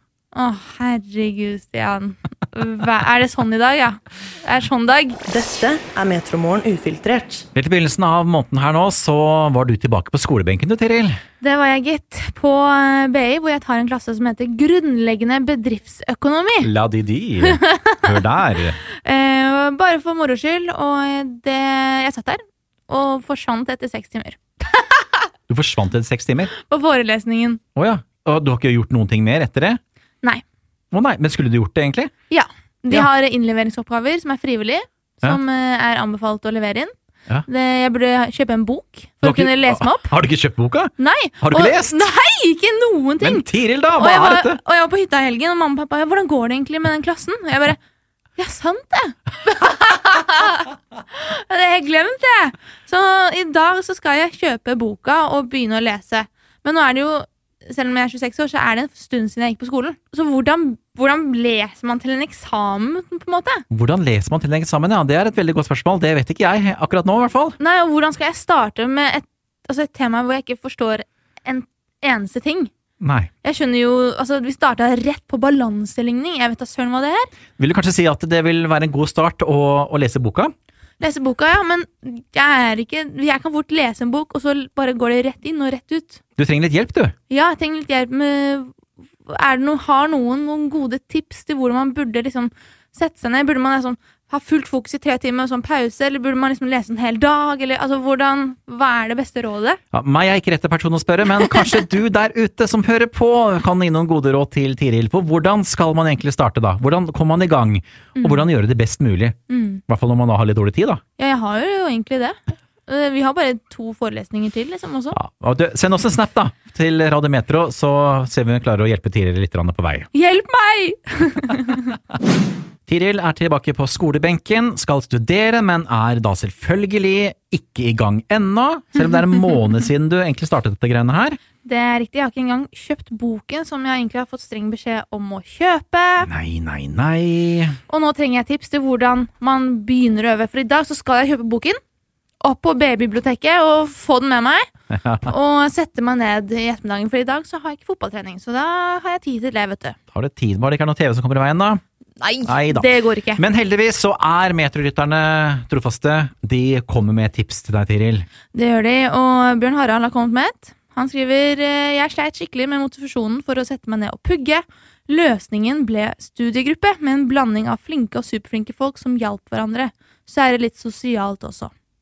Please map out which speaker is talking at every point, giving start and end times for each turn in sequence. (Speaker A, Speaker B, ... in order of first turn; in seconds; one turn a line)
Speaker A: 0.3-5.2
Speaker B: 5.3-7.4
Speaker C: 7.5-11.2
Speaker A: 11.4-16.7
Speaker C: 16.6-18.8
Speaker A: 17.4-18.1
Speaker A: 18.9-25.0
Speaker C: 25.5-26.5
Speaker A: 26.6-27.6
Speaker C: 27.8-29.8
Speaker C: 30.9-32.1
Speaker A: 32.3-36.9
Speaker A: 37.5-40.1
Speaker C: 39.2-42.1
Speaker A: 41.0-47.8
Speaker C: 43.2-44.6
Speaker A: 48.4-63.6
Speaker C: 63.7-67.6
Speaker A: 67.6-72.7
Speaker C: 73.0-73.3
Speaker A: 73.4-77.3
Speaker C: 77.6-80.5
Speaker A: 81.0-86.2
Speaker C: 86.4-87.1
Speaker A: 87.3-88.7
Speaker A: 89.3-99.8
Speaker C: 99.9-109.4
Speaker A: 108.2-108.5
Speaker A: 109.5-109.8
Speaker C: 109.9-111.0
Speaker A: 111.2-115.2
Speaker C: 115.2-120.1
Speaker A: 120.1-121.9
Speaker C: 122.9-131.4
Speaker A: 131.6-136.3
Speaker C: 136.2-137.8
Speaker A: 137.9-141.8
Speaker A: 142.4-144.7
Speaker C: 144.9-145.3
Speaker A: 145.3-150.0
Speaker C: 150.1-151.8
Speaker A: 152.2-153.4
Speaker C: 152.4-158.3
Speaker A: 158.5-171.7